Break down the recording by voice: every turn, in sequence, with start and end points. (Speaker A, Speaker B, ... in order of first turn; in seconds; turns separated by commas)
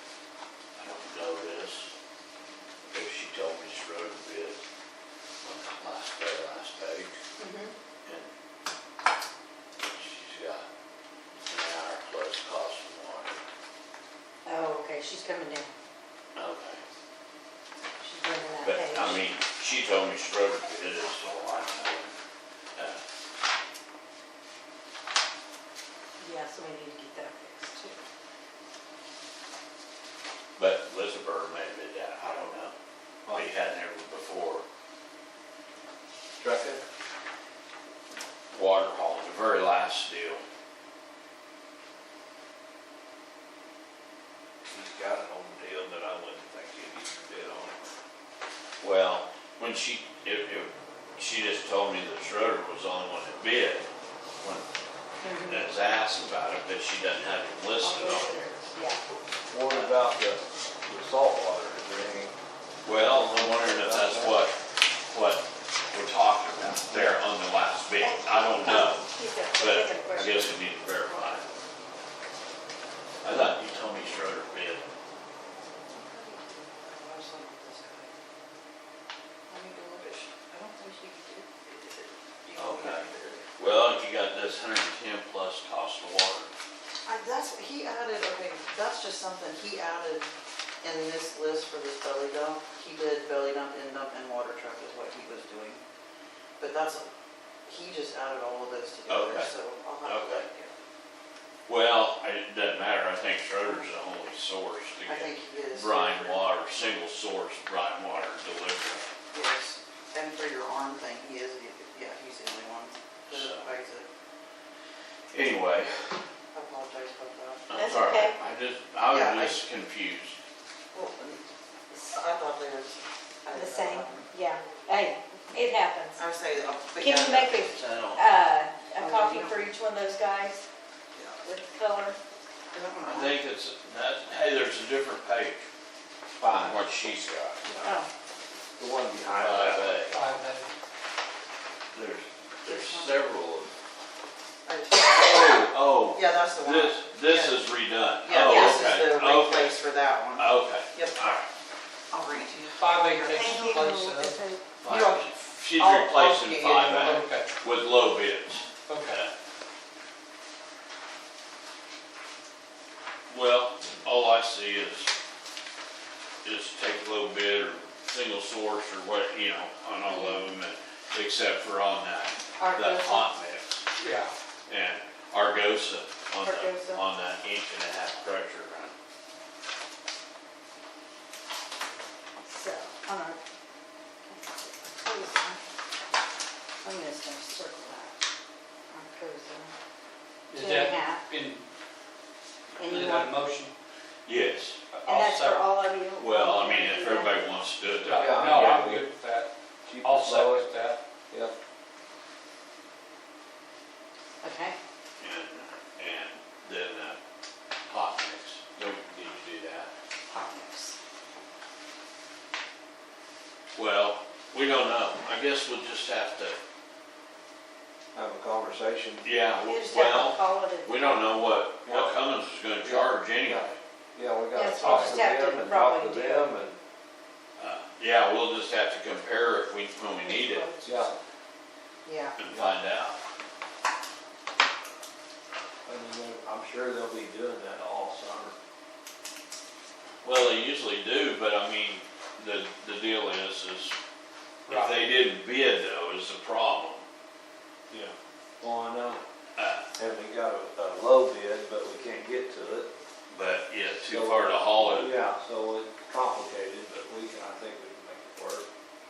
Speaker A: 0.8-1.9, Speaker A: 2.8-4.6, Speaker A: 5.4-7.2, Speaker B: 7.4-7.7, Speaker A: 9.8-10.7, Speaker A: 11.5-13.4, Speaker B: 14.4-15.8, Speaker A: 16.4-16.8, Speaker B: 18.0-19.2, Speaker A: 18.6-22.1, Speaker A: 22.8-23.0, Speaker B: 26.2-28.0, Speaker A: 30.6-32.7, Speaker A: 33.3-34.6, Speaker C: 36.4-36.8, Speaker A: 38.5-40.4, Speaker C: 44.7-47.8, Speaker A: 48.8-54.7, Speaker B: 55.2-55.7, Speaker A: 55.4-58.5, Speaker B: 57.8-59.0, Speaker C: 59.5-62.3, Speaker A: 59.7-59.9, Speaker A: 62.8-71.5, Speaker C: 62.9-64.5, Speaker C: 66.9-67.2, Speaker B: 68.0-70.6, Speaker A: 73.2-74.9, Speaker D: 75.9-78.2, Speaker D: 79.5-83.5, Speaker A: 82.5-86.5, Speaker D: 87.0-90.3, Speaker D: 90.8-95.8, Speaker D: 96.6-97.1, Speaker D: 97.7-100.7, Speaker A: 99.1-100.5, Speaker A: 101.7-109.1, Speaker D: 105.1-106.5, Speaker D: 109.3-114.1, Speaker A: 113.3-113.7, Speaker A: 115.3-116.2, Speaker D: 116.5-117.8, Speaker A: 117.7-120.4, Speaker B: 117.8-118.3, Speaker D: 119.0-119.6, Speaker D: 120.9-124.3, Speaker B: 123.5-126.2, Speaker D: 126.2-127.7, Speaker B: 127.0-130.6, Speaker A: 127.7-128.3, Speaker D: 128.9-129.6, Speaker B: 131.4-132.2, Speaker D: 132.7-133.4, Speaker A: 133.0-135.7, Speaker C: 136.4-136.9, Speaker A: 136.5-137.7, Speaker C: 137.6-137.9, Speaker D: 137.8-138.1, Speaker C: 138.8-140.0, Speaker A: 139.4-140.2, Speaker E: 140.1-140.7, Speaker A: 141.9-143.7, Speaker D: 142.7-143.2, Speaker D: 144.7-147.7, Speaker A: 144.9-149.8, Speaker D: 148.2-151.2, Speaker B: 148.3-149.0, Speaker A: 150.3-151.5, Speaker D: 152.1-153.7, Speaker E: 152.8-155.1, Speaker B: 153.3-154.7, Speaker D: 154.8-157.2, Speaker A: 155.2-159.3, Speaker E: 156.9-157.5, Speaker E: 158.9-159.2, Speaker A: 163.3-165.1, Speaker A: 166.4-173.9, Speaker B: 170.1-170.5, Speaker B: 172.6-173.3, Speaker E: 174.0-174.3, Speaker A: 174.7-178.9, Speaker B: 176.4-177.0, Speaker B: 182.4-183.4, Speaker B: 184.2-185.6, Speaker B: 186.8-188.2, Speaker B: 188.9-189.7, Speaker E: 190.5-191.7, Speaker B: 190.5-191.2, Speaker B: 192.8-193.3, Speaker E: 192.8-193.7, Speaker A: 194.3-194.8, Speaker E: 194.9-195.7, Speaker B: 195.1-197.4, Speaker A: 196.2-198.3, Speaker E: 197.8-199.5, Speaker C: 198.2-199.1, Speaker C: 199.9-200.7, Speaker E: 200.0-201.0, Speaker B: 204.4-204.8, Speaker A: 205.2-207.2, Speaker A: 207.9-209.9, Speaker B: 210.3-211.0, Speaker A: 213.7-216.6, Speaker C: 218.1-219.2, Speaker A: 219.2-223.8, Speaker B: 219.7-221.6, Speaker C: 221.8-222.2, Speaker C: 222.8-226.8, Speaker B: 224.5-226.5, Speaker E: 224.8-225.2, Speaker A: 227.6-230.7, Speaker B: 230.2-231.2, Speaker C: 230.8-231.1, Speaker D: 232.1-232.4, Speaker A: 232.4-233.2, Speaker C: 232.5-232.8, Speaker C: 235.9-238.6, Speaker A: 240.2-244.0, Speaker E: 244.7-245.0, Speaker A: 244.7-247.0, Speaker C: 247.9-249.2, Speaker A: 249.6-249.8, Speaker C: 250.0-252.9, Speaker A: 253.3-255.2, Speaker C: 254.1-258.7